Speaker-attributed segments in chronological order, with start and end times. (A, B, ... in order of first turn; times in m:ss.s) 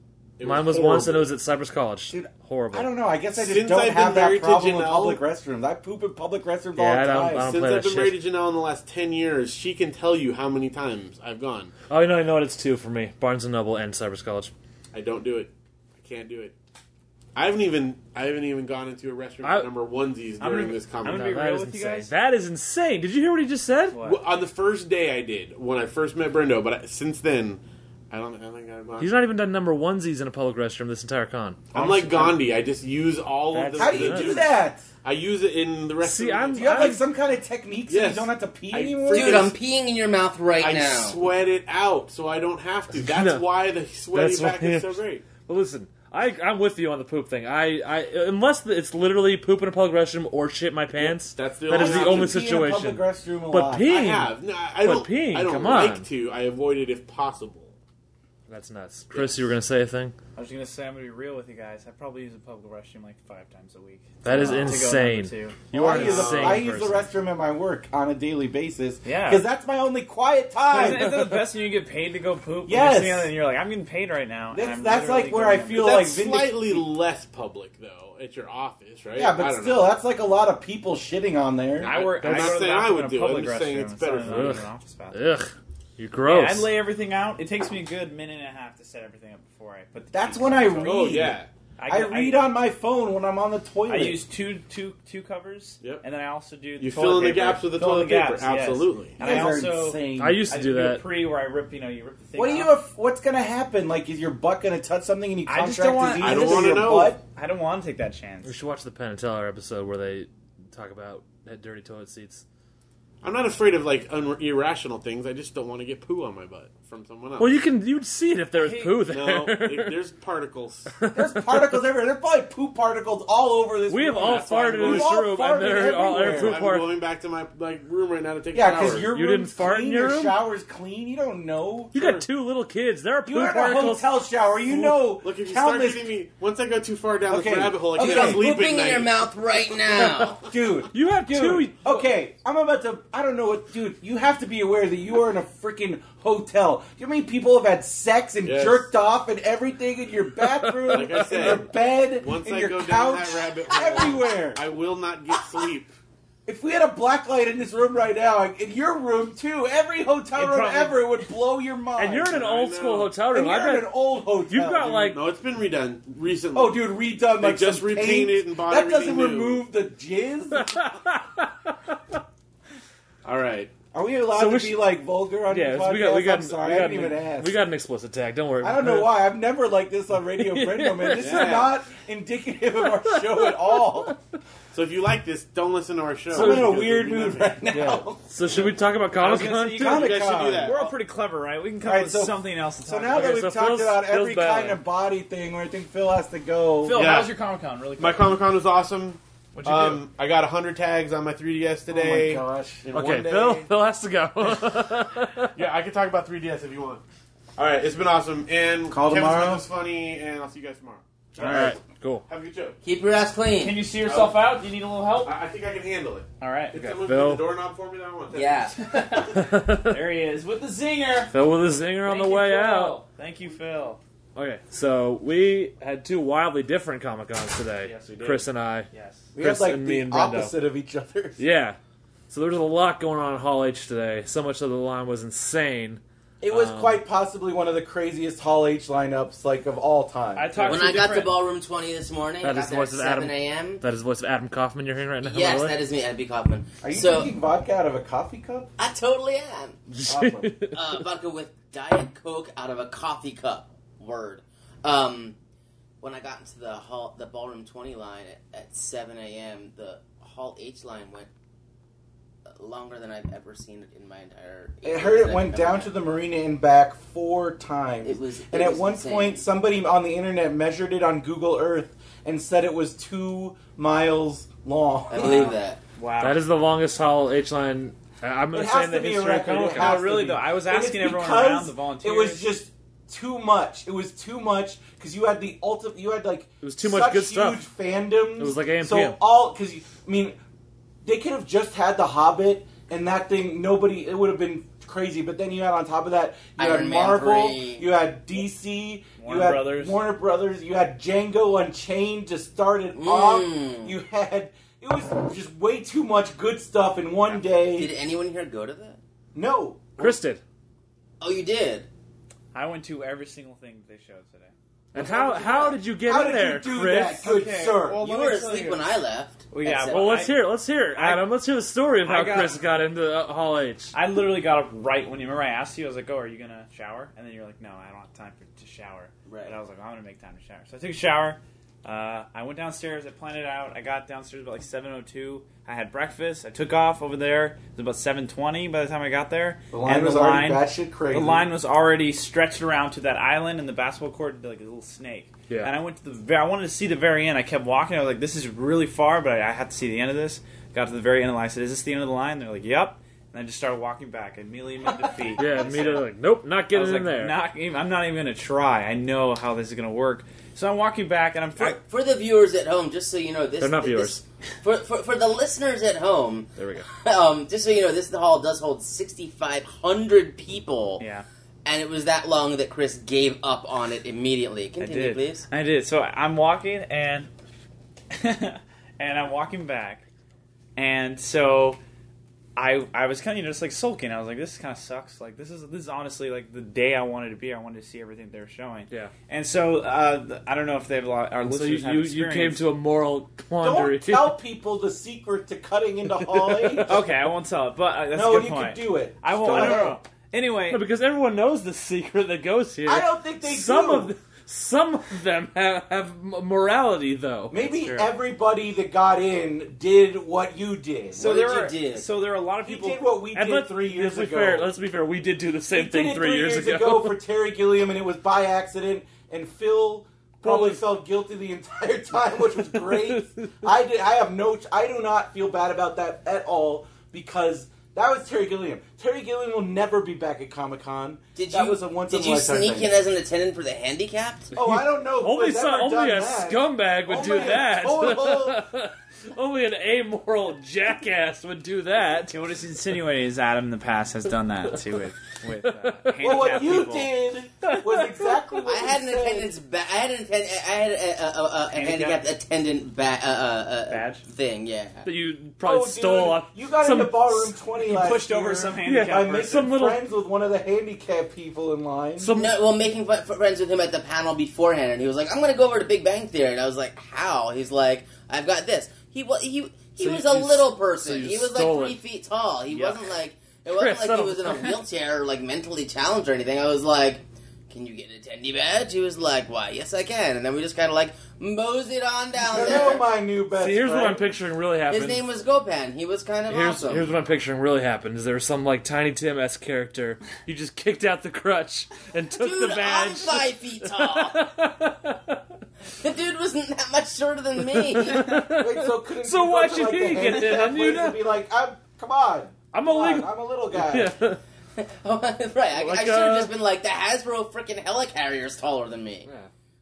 0:00.4-0:01.3 A
0:00.4-0:02.9 B
0:02.1-0:07.5 C
0:03.3-0:05.2 A
0:06.8-0:08.2 B
0:07.4-0:11.7 A
0:11.9-0:14.5 B
0:14.9-0:16.5 A
0:17.3-0:21.3 A
0:19.4-0:19.7 B
0:20.4-0:22.1 D
0:21.0-0:24.0 B
0:23.9-0:24.2 D
0:24.0-0:29.1 A
0:29.0-0:31.7 B
0:31.7-0:37.1 A
0:33.5-0:34.4 B
0:33.7-0:34.9 C
0:36.0-0:37.0 B
0:36.5-0:39.5 C
0:37.9-0:39.6 A
0:39.1-0:41.2 E
0:40.5-0:45.2 A
0:42.9-0:43.4 B
0:44.1-0:56.1 B
0:51.0-0:52.5 A
0:51.7-0:53.9 C
0:53.9-0:57.7 A
0:58.5-1:00.1 B
0:59.1-0:59.4 A
1:00.4-1:07.0 D
1:04.2-1:07.1 B
1:05.7-1:11.4 C
1:09.0-1:09.4 D
1:10.7-1:16.0 D
1:12.6-1:13.3 C
1:14.5-1:16.8 C
1:15.7-1:20.0 A
1:19.1-1:21.9 C
1:21.8-1:25.3 D
1:21.8-1:24.6 A
1:21.9-1:22.5 B
1:24.2-1:26.7 B
1:26.2-1:31.0 D
1:30.1-1:34.2 C
1:30.8-1:31.5 A
1:31.8-1:32.5 D
1:33.9-1:42.8 D
1:36.8-1:39.2 A
1:39.2-1:40.5 C
1:40.2-1:41.0 B
1:42.4-1:47.2 C
1:45.4-1:48.5 D
1:46.1-1:47.2 A
1:48.4-1:52.4 B
1:53.2-1:57.5 A
1:57.4-2:00.0 B
1:58.6-1:59.0 D
1:59.0-2:01.0 A
2:01.0-2:01.8 B
2:01.1-2:06.6 C
2:03.9-2:06.9 B
2:04.2-2:05.2 A
2:06.2-2:09.1 A
2:08.5-2:11.9 C
2:09.1-2:10.4 B
2:11.9-2:14.1 B
2:11.9-2:12.2 A
2:13.2-2:16.1 C
2:14.7-2:19.2 A
2:17.3-2:18.6 C
2:18.0-2:20.4 E
2:20.0-2:20.3 B
2:20.4-2:34.6 C
2:20.9-2:22.1 B
2:28.4-2:28.9 A
2:30.4-2:31.7 B
2:30.8-2:35.9 A
2:36.5-2:42.6 C
2:40.3-2:41.0 D
2:42.0-2:45.2 B
2:42.3-2:43.2 A
2:43.2-2:45.2 C
2:45.1-2:49.6 A
2:46.5-2:50.9 C
2:50.5-2:52.2 B
2:53.2-2:53.8 A
2:53.9-2:57.5 C
2:54.3-2:59.2 B
2:58.6-3:04.2 C
3:00.1-3:01.6 B
3:01.1-3:01.9 A
3:02.8-3:04.1 B
3:04.7-3:07.7 A
3:06.3-3:06.9 B
3:06.3-3:08.6 C
3:07.7-3:10.1 B
3:09.2-3:13.4 D
3:09.4-3:10.9 A
3:09.6-3:10.8 C
3:11.8-3:17.1 C
3:13.1-3:14.8 B
3:16.8-3:18.3 D
3:16.9-3:17.4 A
3:18.0-3:23.7 A
3:19.5-3:20.0 D
3:21.9-3:22.9 C
3:22.9-3:25.5 B
3:25.5-3:27.0 A
3:27.6-3:31.7 A
3:28.9-3:29.6 C
3:31.4-3:32.2 B
3:31.4-3:31.8 C
3:32.3-3:32.7 A
3:32.8-3:33.9 E
3:33.6-3:35.3 D
3:34.0-3:34.6 A
3:35.2-3:38.7 A
3:36.4-3:36.8 D
3:36.8-3:37.4 B
3:38.3-3:38.8 E
3:38.8-3:41.3 D
3:39.2-3:40.0 B
3:41.3-3:43.0 B
3:42.0-3:44.0 D
3:44.3-3:50.5 B
3:47.8-3:49.3 D
3:47.9-3:48.2 A
3:49.4-3:51.4 C
3:51.4-3:51.8 B
3:52.3-3:57.0 B
3:56.4-4:00.7 C
4:00.3-4:01.4 D
4:00.5-4:01.1 B
4:00.6-4:03.8 E
4:02.4-4:05.8 B
4:05.2-4:07.3 E
4:06.8-4:08.7 C
4:08.8-4:09.8 E
4:09.9-4:11.0 B
4:10.0-4:10.7 C
4:10.7-4:15.4 E
4:16.0-4:21.3 E
4:22.5-4:25.9 E
4:24.8-4:35.5 C
4:28.0-4:29.4 E
4:35.1-4:35.8 E
4:35.2-4:36.4 D
4:36.2-4:40.4 B
4:38.5-4:50.4 C
4:39.5-4:42.5 D
4:46.6-4:47.6 B
4:48.4-4:49.2 B
4:51.0-5:07.9 C
4:56.6-4:57.9 E
4:59.2-5:00.1 D
5:02.9-5:03.9 E
5:07.3-5:09.0 E
5:09.3-5:10.2 C
5:10.0-5:10.4 B
5:11.2-5:11.9 E
5:12.5-5:14.5 D
5:14.9-5:17.3 B
5:14.9-5:18.0 C
5:15.2-5:15.7 E
5:17.3-5:17.8 D
5:17.3-5:18.8 A
5:17.9-5:20.3 E
5:19.5-5:21.3 D
5:19.9-5:23.9 B
5:22.0-5:22.6 D
5:23.9-5:56.1 D
5:29.3-5:29.6 E
5:39.7-5:41.5 C
5:55.4-5:57.3 B
5:56.7-6:01.8 D
6:01.6-6:11.0 E
6:03.6-6:04.2 B
6:06.6-6:06.9 B
6:11.0-6:11.2 D
6:11.6-6:15.4 E
6:14.8-6:17.3 D
6:18.1-6:20.0 D
6:20.8-6:21.8 D
6:22.6-6:32.6 D
6:31.4-6:34.4 B
6:33.6-6:37.0 C
6:36.1-6:37.1 B
6:36.8-6:40.8 D
6:38.1-6:40.0 C
6:39.4-6:40.0 B
6:40.7-6:47.5 B
6:42.8-6:44.1 C
6:47.5-6:51.2 C
6:47.6-6:48.1 D
6:51.1-6:52.1 E
6:51.1-6:53.1 D
6:52.6-6:54.7 C
6:53.3-6:57.2 B
6:55.7-7:13.0 C
7:00.4-7:00.8 B
7:02.7-7:03.5 B
7:11.3-7:14.5 E
7:14.5-7:18.6 C
7:14.6-7:22.4 B
7:22.3-7:27.1 D
7:25.5-7:26.6 B
7:26.2-7:29.5 C
7:27.6-7:28.6 B
7:28.6-7:35.1 E
7:31.7-7:32.2 D
7:33.9-7:34.2 D
7:35.0-7:37.5 B
7:35.6-7:42.3 C
7:37.8-7:39.7 D
7:38.8-7:40.0 B
7:42.2-7:42.6 B
7:42.3-8:03.1 E
7:50.0-7:52.0 B
7:52.7-7:53.0 D
7:53.7-7:54.8 B
8:02.4-8:04.3 C
8:03.5-8:05.2 B
8:04.9-8:07.1 E
8:06.5-8:15.4 B
8:12.3-8:14.5 E
8:16.0-8:18.4 E
8:17.6-8:21.3 B
8:18.3-8:24.1 C
8:22.7-8:24.4 B
8:24.8-8:29.3 E
8:25.7-8:26.6 B